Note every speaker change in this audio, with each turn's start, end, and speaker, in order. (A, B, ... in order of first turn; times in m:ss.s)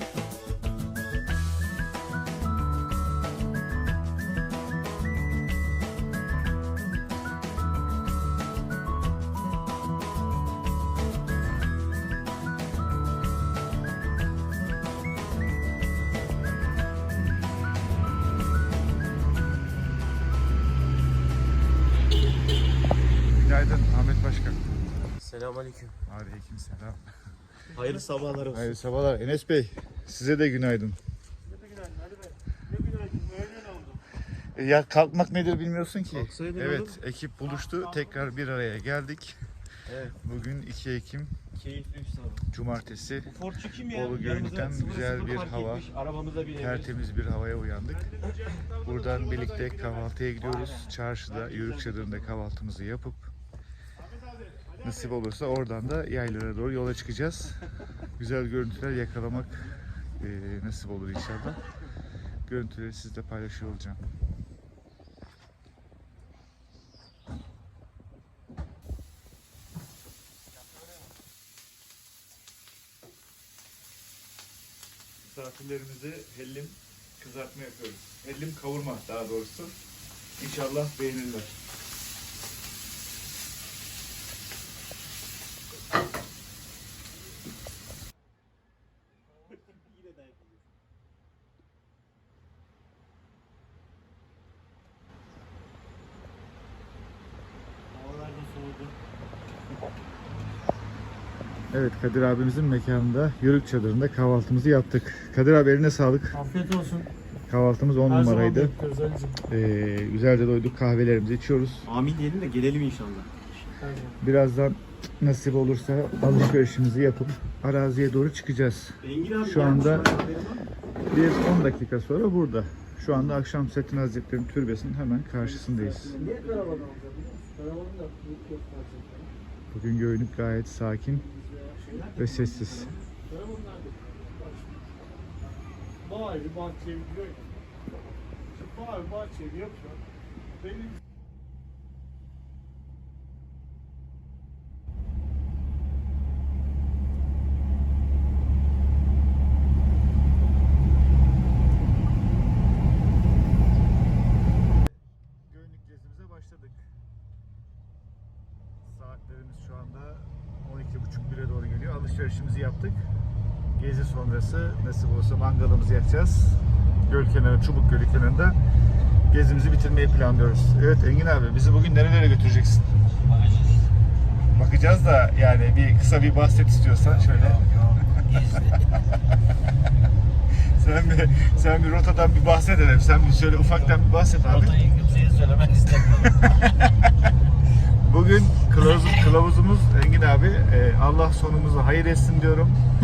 0:23.3-0:24.7 A
0:25.2-0:25.9 B
0:26.1-0:27.0 A
0:27.7-0:28.7 B
0:28.5-0:31.0 A
0:33.2-0:33.9 C
0:34.5-0:39.4 A
0:36.2-0:37.0 B
0:39.9-0:40.2 B
0:40.2-0:41.3 A
0:41.5-0:42.4 B
0:42.5-0:43.3 A
0:43.3-0:46.9 B
0:43.8-0:45.9 A
0:46.6-0:53.3 A
0:48.9-0:49.4 C
0:50.4-0:52.3 B
0:54.8-0:57.6 A
0:58.2-1:01.6 A
1:02.5-1:04.0 A
1:15.2-1:19.7 A
1:20.4-1:21.5 A
1:29.8-1:30.5 B
1:37.9-1:38.9 C
1:41.7-1:46.4 A
1:46.3-1:47.1 C
1:47.5-1:48.7 A
1:48.1-1:49.4 C
1:49.5-1:51.9 A
1:51.8-1:53.3 B
1:53.8-1:54.2 C
1:54.2-2:00.1 A
1:59.0-2:00.7 B
2:01.1-2:06.1 A
2:05.4-2:06.9 B
2:06.1-2:09.3 C
2:09.7-2:11.2 A
2:11.4-2:12.0 C
2:11.9-2:13.0 B
2:12.2-2:12.9 A
2:13.3-2:14.6 C
2:16.0-2:17.5 C
2:18.5-2:20.0 C
2:35.4-2:36.9 A
2:38.8-2:43.0 A
2:43.8-2:48.6 A
2:49.3-2:53.0 A
2:54.5-2:57.8 A
3:00.7-3:05.0 A
3:05.0-3:06.2 B
3:05.9-3:06.8 A
3:08.0-3:12.8 A